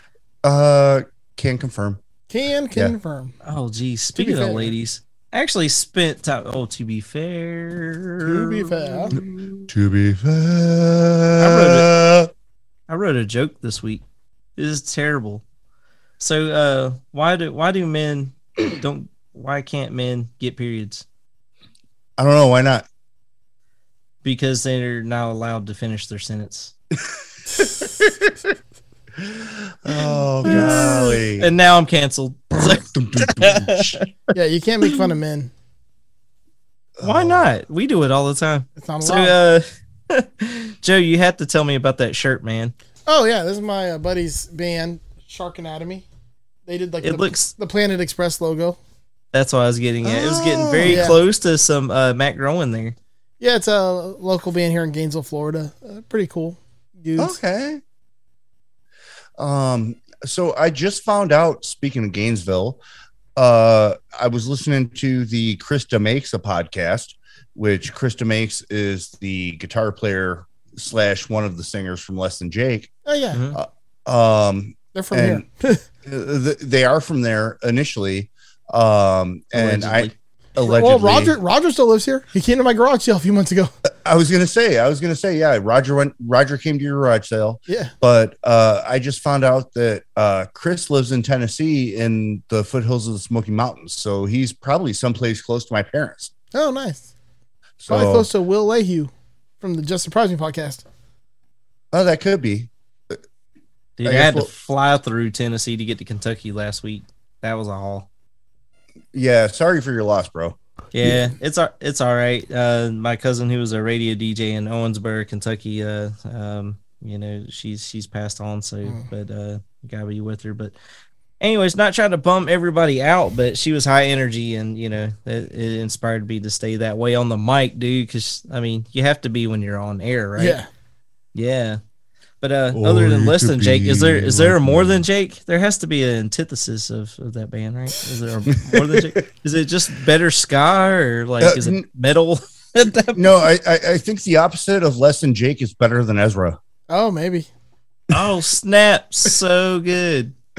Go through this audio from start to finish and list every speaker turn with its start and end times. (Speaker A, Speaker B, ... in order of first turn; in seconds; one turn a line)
Speaker A: 0.4-2.0
Speaker B: 2.3-3.3
Speaker C: 3.4-9.3
Speaker B: 4.2-4.7
Speaker B: 8.2-9.2
Speaker A: 9.1-12.3
Speaker C: 11.4-11.9
Speaker C: 12.9-14.0
Speaker C: 14.6-15.4
Speaker C: 16.2-21.0
Speaker A: 22.2-22.8
Speaker C: 24.2-26.7
Speaker A: 27.6-28.3
Speaker A: 29.2-31.5
Speaker C: 30.4-32.8
Speaker A: 32.6-34.0
Speaker C: 33.4-34.0
Speaker B: 34.3-35.5
Speaker A: 37.0-37.5
Speaker C: 37.0-42.7
Speaker B: 38.8-39.4
Speaker B: 43.1-46.0
Speaker B: 46.7-48.8
Speaker C: 47.0-47.5
Speaker C: 49.3-53.0
Speaker A: 50.0-51.1
Speaker B: 50.9-51.2
Speaker B: 53.4-57.4
Speaker A: 57.1-57.8
Speaker A: 59.4-62.8
Speaker A: 63.4-72.9
Speaker B: 73.0-73.4
Speaker C: 73.3-73.6
Speaker A: 73.5-75.4
Speaker B: 74.9-75.8
Speaker A: 76.0-81.4
Speaker C: 79.5-80.1
Speaker B: 80.6-83.7
Speaker A: 83.9-96.3
Speaker B: 96.5-97.1
Speaker A: 97.8-98.3
Speaker B: 97.9-100.8
Speaker A: 101.9-103.2
Speaker C: 104.0-108.1
Speaker A: 104.0-104.5
Speaker A: 109.1-110.6
Speaker C: 110.9-120.7
Speaker C: 121.4-130.6
Speaker B: 130.4-130.7
Speaker C: 131.3-131.8
Speaker C: 132.4-143.4
Speaker A: 132.7-135.0
Speaker A: 138.6-139.2
Speaker A: 141.4-141.8
Speaker A: 143.1-146.6
Speaker B: 146.9-147.5
Speaker C: 148.1-150.3